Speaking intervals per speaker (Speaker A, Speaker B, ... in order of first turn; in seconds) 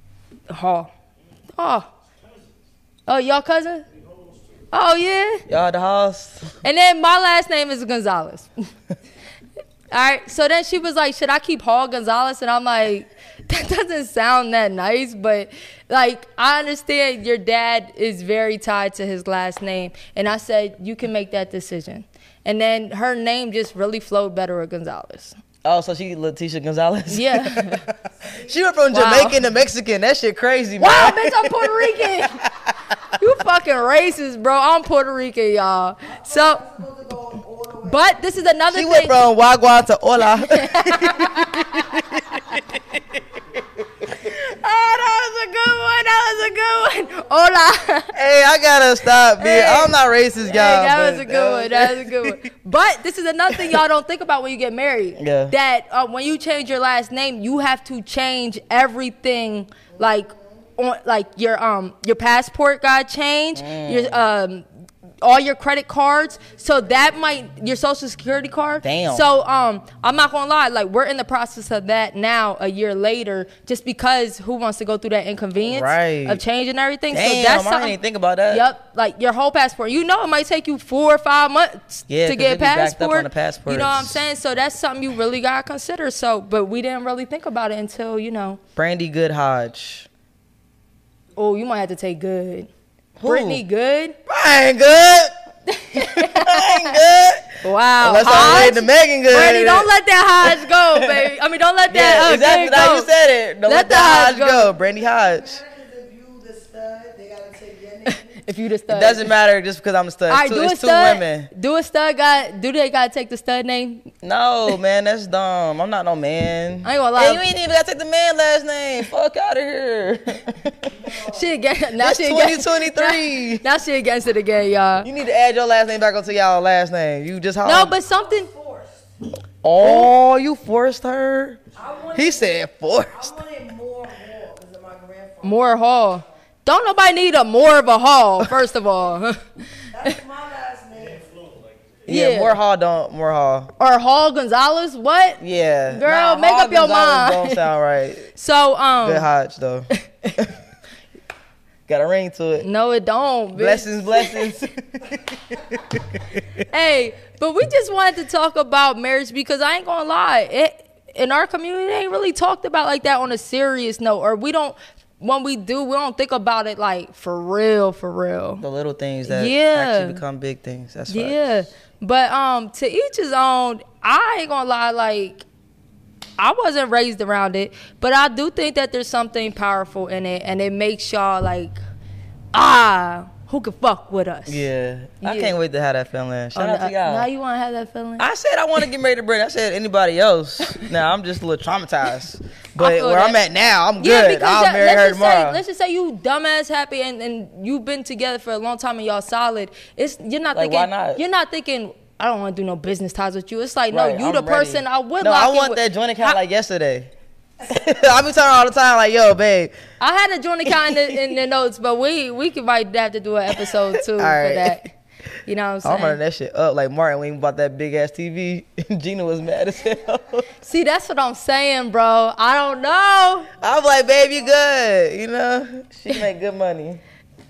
Speaker A: 0.5-0.9, 1.6-1.9, 3.1-3.9, 4.7-5.4, 6.6-8.5, 9.9-25.4, 27.1-27.8, 28.9-29.4, 30.8-32.4, 33.2-36.6, 37.8-39.1, 40.4-42.0, 44.2-48.1, 49.4-49.9, 50.5-64.7, 65.2-78.0, 78.5-88.6, 91.3-92.7, 93.2-94.2, 95.7-97.0, 97.6-103.1, 103.7-104.7, 108.1-109.3, 110.3-114.1, 116.8-117.4, 121.3-125.1, 127.6-128.5, 129.8-130.1, 135.4-139.4, 142.1-142.6, 143.8-147.6, 148.3-149.3, 150.0-150.3, 152.6-154.5, 156.6-168.6, 169.2-170.2, 171.1-175.4, 176.4-181.8, 182.5-184.7, 185.2-185.6, 186.5-188.2, 192.8-193.4, 194.0-206.4, 210.0-214.8, 215.4-216.2, 220.6-223.5
Speaker B: 5.5-6.5, 25.6-27.8, 28.4-32.5, 38.7-42.2, 48.1-52.4, 55.2-55.5, 63.5-64.2, 68.8-69.2, 75.6-76.4, 77.1-78.7, 82.1-84.2, 88.8-90.1, 93.2-93.6, 94.3-95.3, 95.9-99.9, 100.4-101.3, 101.9-105.6, 108.9-111.5, 114.2-120.9, 122.0-123.6, 125.0-127.9, 129.6-131.6, 132.1-133.3, 142.1-143.7, 145.4-148.3, 149.0-150.5, 151.9-152.7, 153.5-155.6, 168.6-171.4, 184.5-187.3, 188.2-195.6, 200.5-201.2, 203.9-207.1, 207.6-209.7, 210.7-211.3, 213.6-214.9, 215.8-220.4, 223.6-227.0
Speaker C: 36.1-38.1, 104.7-108.3, 120.9-121.5, 127.9-129.1, 131.7-136.2, 139.9-141.6